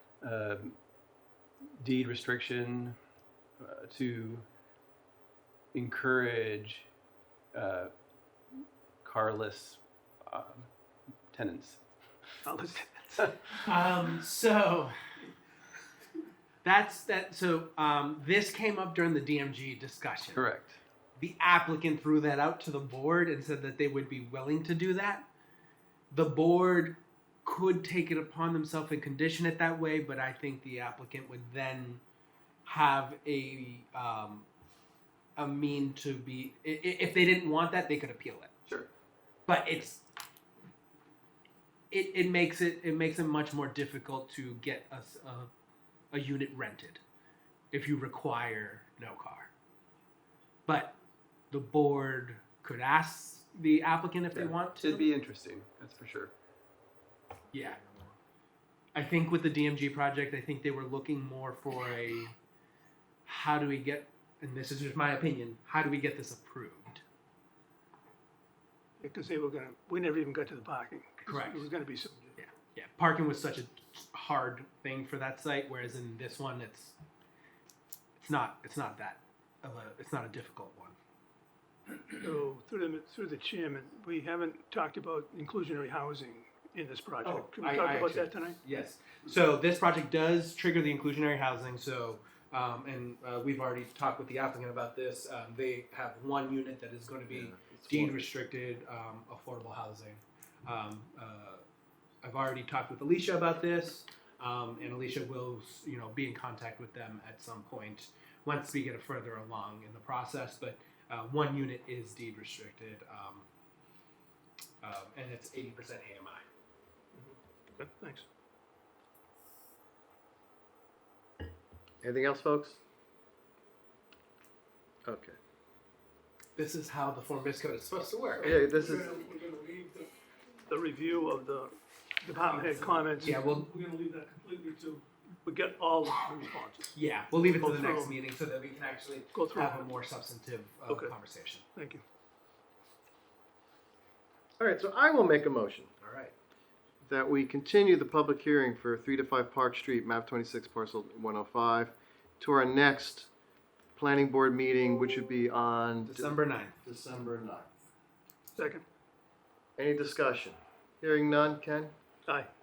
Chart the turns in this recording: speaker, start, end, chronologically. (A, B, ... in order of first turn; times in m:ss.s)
0:00.2-0:00.8 A
0:01.8-0:03.0 A
0:03.6-0:04.4 A
0:05.7-0:06.9 A
0:07.5-0:07.9 A
0:09.0-0:10.7 A
0:11.3-0:11.8 A
0:12.4-0:13.3 B
0:13.6-0:15.0 C
0:16.6-0:20.4 C
0:20.4-0:20.8 A
0:21.2-0:25.2 C
0:26.1-0:32.0 C
0:32.6-0:34.5 C
0:35.4-0:38.5 C
0:39.5-0:40.0 C
0:41.9-0:45.5 C
0:46.1-0:47.0 C
0:47.7-0:49.5 C
0:50.7-0:51.0 C
0:51.5-0:55.1 C
0:54.4-0:56.3 A
0:57.5-0:57.8 C
0:59.0-1:02.4 C
1:03.2-1:07.0 C
1:09.0-1:12.3 B
1:11.3-1:11.7 C
1:12.4-1:17.0 C
1:18.2-1:21.0 C
1:22.2-1:28.6 B
1:27.2-1:41.6 C
1:37.3-1:38.2 D
1:42.2-1:53.5 C
1:54.8-1:56.4 C
1:57.1-1:58.3 B
2:02.0-2:02.8 D
2:05.0-2:05.4 D
2:06.6-2:08.6 C
2:08.4-2:09.1 D
2:08.4-2:10.1 B
2:10.7-2:17.0 B
2:12.5-2:13.7 C
2:16.9-2:21.6 C
2:17.6-2:18.2 B
2:19.3-2:20.0 B
2:20.9-2:21.2 B
2:21.7-2:22.0 B
2:24.6-2:25.9 D
2:26.0-2:26.3 C
2:27.0-2:33.3 D
2:34.0-2:37.7 D
2:36.1-2:36.8 C
2:38.6-2:38.8 B
2:39.8-2:41.9 D